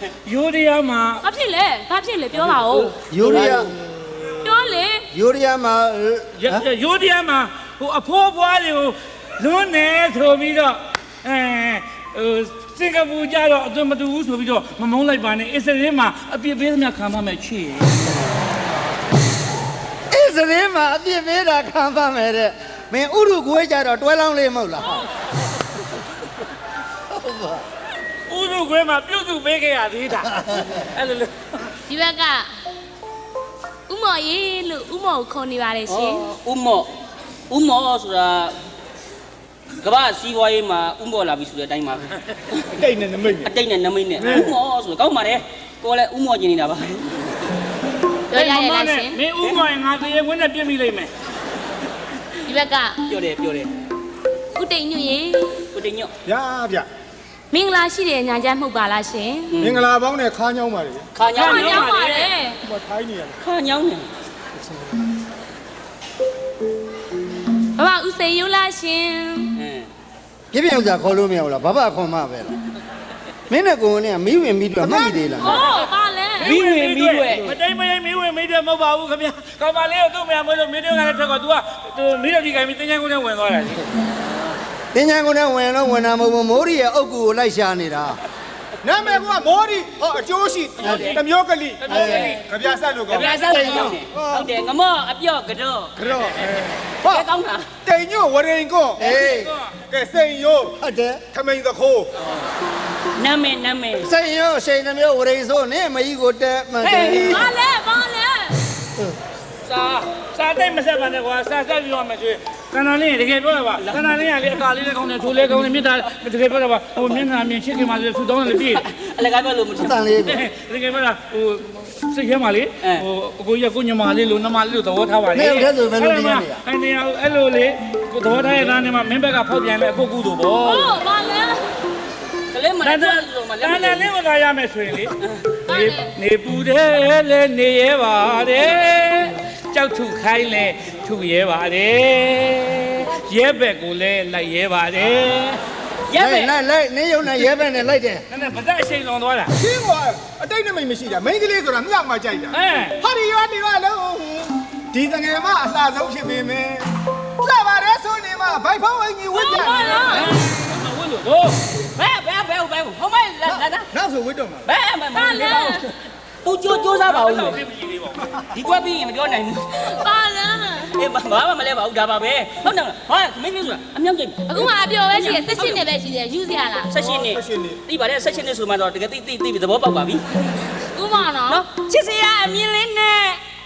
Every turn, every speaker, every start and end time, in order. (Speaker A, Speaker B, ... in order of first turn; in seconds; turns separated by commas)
Speaker A: 0.2-1.2, Speaker B: 1.2-3.0, Speaker C: 2.3-3.7, Speaker D: 3.1-3.7, Speaker B: 4.4-5.0, Speaker D: 5.1-6.6, Speaker A: 6.4-18.0, Speaker D: 20.1-25.1, Speaker D: 27.1-27.6, Speaker A: 28.3-31.4, Speaker B: 31.9-32.5, Speaker B: 33.9-36.2, Speaker C: 35.9-36.9, Speaker C: 37.5-38.5, Speaker C: 39.8-42.6, Speaker E: 42.7-43.5, Speaker C: 43.4-47.4, Speaker E: 44.2-44.5, Speaker B: 48.3-49.2, Speaker A: 48.4-51.1, Speaker B: 52.5-53.0, Speaker C: 53.1-53.7, Speaker B: 54.6-55.6, Speaker C: 55.7-56.1, Speaker E: 56.2-56.9, Speaker B: 57.5-59.5, Speaker C: 59.5-59.9, Speaker E: 59.6-61.1, Speaker C: 61.1-61.9, Speaker A: 61.4-62.3, Speaker B: 61.4-62.6, Speaker E: 62.6-63.4, Speaker C: 63.4-64.1, Speaker B: 67.8-69.6, Speaker C: 69.6-69.9, Speaker D: 70.5-72.5, Speaker D: 73.5-75.6, Speaker B: 74.8-76.6, Speaker A: 76.4-83.8, Speaker C: 76.4-77.5, Speaker D: 84.9-88.2, Speaker E: 88.8-94.5, Speaker D: 90.8-91.1, Speaker C: 90.8-91.2, Speaker A: 91.8-92.4, Speaker D: 91.9-92.4, Speaker C: 91.9-92.4, Speaker C: 93.1-97.7, Speaker A: 93.1-93.9, Speaker D: 93.4-94.0, Speaker E: 96.0-97.3, Speaker E: 97.8-99.0, Speaker D: 99.0-99.5, Speaker A: 99.0-99.8, Speaker E: 99.9-102.1, Speaker D: 100.8-101.2, Speaker C: 103.2-104.1, Speaker D: 104.0-107.5, Speaker C: 106.8-107.5, Speaker B: 107.3-108.6, Speaker A: 109.7-118.8, Speaker C: 113.8-114.0, Speaker C: 118.6-120.0, Speaker D: 119.8-120.4, Speaker A: 120.2-130.9, Speaker D: 125.3-126.6, Speaker B: 130.7-131.7, Speaker C: 132.5-134.1, Speaker A: 132.8-135.2, Speaker B: 135.7-136.1, Speaker A: 135.7-145.6, Speaker C: 146.1-146.5, Speaker D: 146.2-148.2, Speaker A: 148.3-149.5, Speaker E: 149.6-160.2, Speaker A: 152.5-153.0, Speaker B: 159.3-160.4, Speaker A: 160.0-161.6, Speaker C: 161.9-163.9, Speaker E: 163.9-164.7, Speaker C: 164.7-165.9, Speaker B: 165.1-165.8, Speaker C: 166.4-167.6, Speaker A: 167.0-168.3, Speaker C: 168.5-170.0, Speaker B: 169.9-170.9, Speaker C: 170.9-175.8, Speaker B: 174.5-176.9, Speaker C: 176.9-180.2, Speaker E: 177.0-177.8, Speaker B: 180.9-181.7, Speaker C: 181.5-183.4